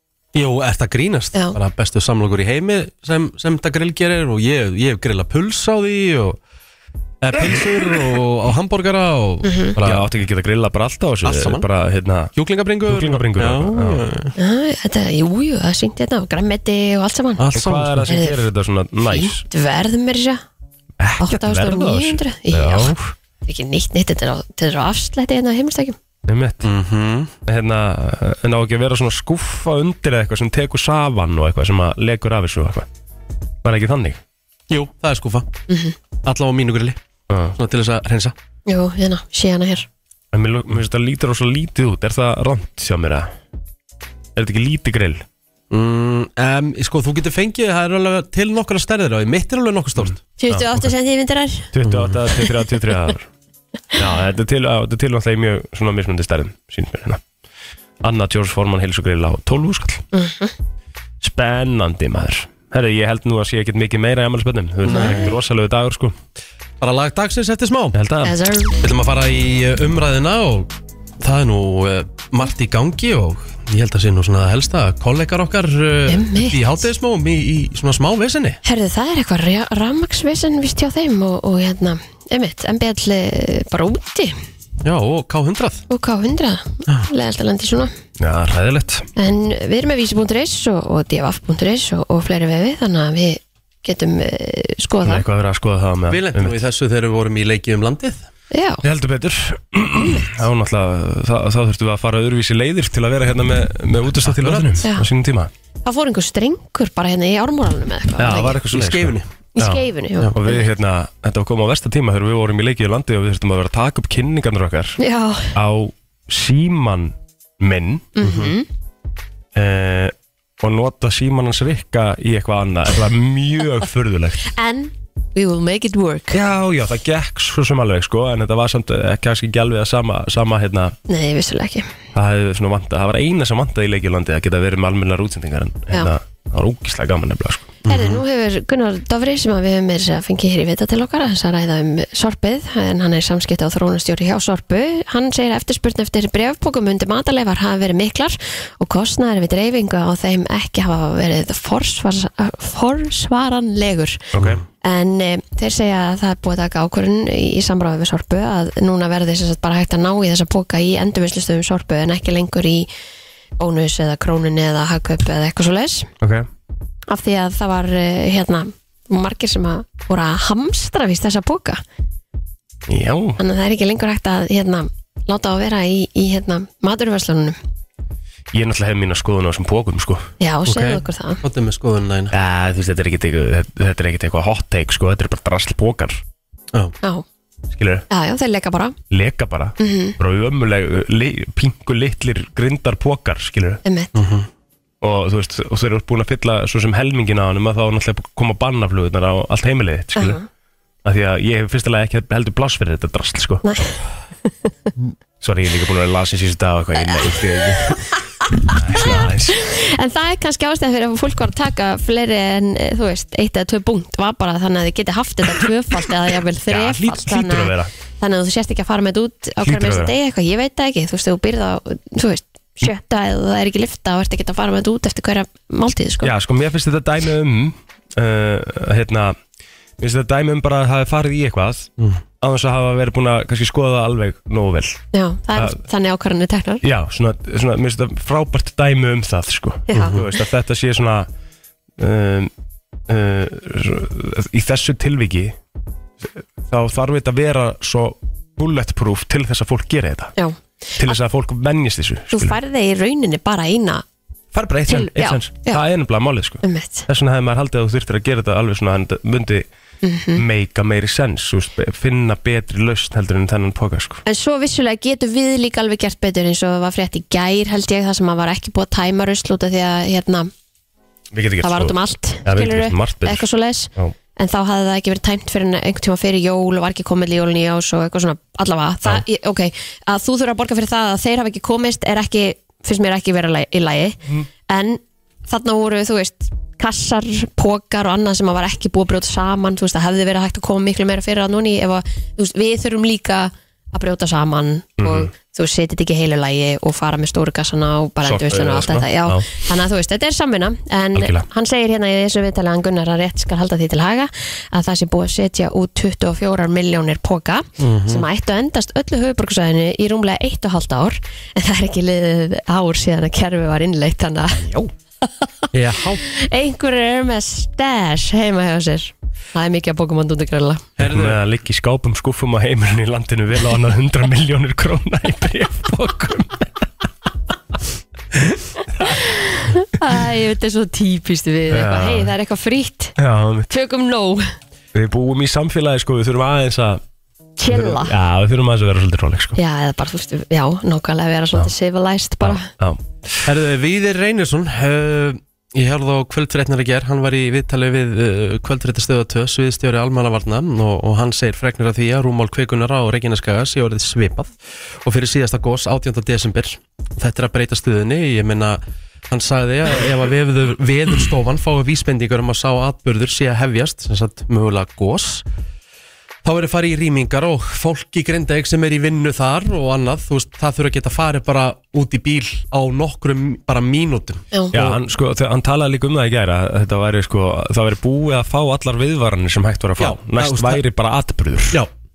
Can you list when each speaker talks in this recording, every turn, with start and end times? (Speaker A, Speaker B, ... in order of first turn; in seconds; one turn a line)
Speaker A: 0.3-6.4
Speaker A: 7.2-10.1
Speaker B: 7.3-8.2
Speaker C: 9.4-9.8
Speaker B: 9.8-12.3
Speaker A: 11.2-11.7
Speaker A: 12.3-14.3
Speaker B: 12.9-14.0
Speaker C: 14.4-17.4
Speaker A: 17.4-18.1
Speaker B: 17.5-19.4
Speaker C: 18.1-18.4
Speaker C: 19.1-20.4
Speaker B: 21.0-23.1
Speaker C: 21.2-22.9
Speaker C: 23.5-26.0
Speaker B: 26.3-26.7
Speaker A: 26.6-27.3
Speaker B: 27.5-32.9
Speaker B: 33.6-34.2
Speaker A: 34.7-35.5
Speaker C: 35.7-36.0
Speaker A: 36.2-37.0
Speaker B: 37.3-37.6
Speaker A: 37.6-38.3
Speaker C: 38.7-39.9
Speaker B: 40.3-43.3
Speaker B: 44.4-45.2
Speaker A: 45.7-50.2
Speaker B: 50.1-50.9
Speaker C: 50.4-51.7
Speaker B: 51.7-53.3
Speaker A: 51.8-52.2
Speaker B: 53.9-57.2
Speaker B: 58.0-60.0
Speaker C: 60.1-60.5
Speaker B: 61.2-66.2
Speaker A: 64.9-65.3
Speaker A: 66.8-68.0
Speaker B: 67.9-68.4
Speaker C: 68.2-68.8
Speaker A: 68.8-78.6
Speaker C: 76.1-76.6
Speaker C: 78.6-84.4
Speaker A: 84.8-85.9
Speaker C: 85.9-87.9
Speaker B: 88.2-89.1
Speaker C: 89.2-95.2
Speaker B: 95.0-96.6
Speaker A: 96.1-98.2
Speaker C: 98.5-98.8
Speaker B: 98.8-105.5
Speaker A: 104.2-104.8
Speaker C: 104.8-105.1
Speaker C: 105.8-108.6
Speaker B: 108.2-115.0
Speaker A: 108.7-109.3
Speaker C: 109.5-110.7
Speaker C: 115.0-115.5
Speaker B: 115.5-118.1
Speaker C: 118.2-118.7
Speaker A: 118.2-118.5
Speaker B: 119.5-124.5
Speaker C: 124.5-126.4
Speaker B: 126.3-131.0
Speaker C: 131.1-131.9
Speaker B: 132.1-137.8
Speaker A: 137.9-138.2
Speaker C: 137.9-154.2
Speaker B: 154.3-154.6
Speaker C: 154.8-162.9
Speaker C: 163.6-166.1
Speaker B: 166.2-166.5
Speaker C: 167.1-171.8
Speaker B: 172.9-173.4
Speaker C: 173.4-177.6
Speaker B: 178.5-180.3
Speaker C: 180.4-181.4
Speaker A: 180.7-182.3
Speaker B: 182.3-186.2
Speaker B: 187.7-188.1
Speaker C: 188.1-189.0
Speaker B: 189.1-193.8
Speaker C: 189.8-190.2
Speaker C: 193.8-194.1
Speaker A: 194.2-194.5
Speaker B: 195.0-200.4
Speaker C: 200.2-200.4
Speaker B: 201.0-203.6
Speaker C: 203.6-204.7
Speaker B: 205.4-208.1
Speaker B: 208.7-209.6
Speaker C: 208.7-226.3
Speaker B: 216.7-217.9
Speaker B: 219.6-220.1
Speaker B: 226.2-229.4
Speaker B: 230.0-231.9
Speaker B: 232.4-235.0
Speaker C: 235.1-236.8
Speaker B: 236.8-241.3
Speaker C: 239.9-240.2
Speaker A: 239.9-240.3
Speaker B: 242.0-242.5
Speaker B: 243.1-245.6
Speaker B: 246.2-250.3
Speaker B: 251.0-252.6
Speaker C: 252.3-254.0
Speaker B: 254.5-259.7
Speaker C: 254.9-255.8
Speaker C: 256.6-257.1
Speaker C: 260.0-260.4
Speaker B: 260.4-264.2
Speaker C: 264.2-270.5
Speaker B: 271.3-274.1
Speaker C: 271.6-315.5
Speaker B: 295.0-295.3
Speaker B: 298.2-299.5
Speaker B: 301.1-301.5
Speaker A: 307.8-308.2
Speaker A: 315.7-316.2
Speaker C: 316.2-320.9
Speaker A: 321.0-321.4
Speaker B: 321.0-326.9
Speaker C: 329.0-333.2
Speaker B: 331.7-332.3
Speaker B: 333.2-333.7
Speaker C: 333.7-334.5
Speaker B: 334.9-337.0
Speaker C: 337.6-338.1
Speaker B: 337.7-339.6
Speaker C: 339.6-342.7
Speaker B: 342.4-343.0
Speaker A: 343.4-365.4
Speaker A: 366.4-375.0
Speaker B: 374.7-381.8
Speaker A: 380.0-380.8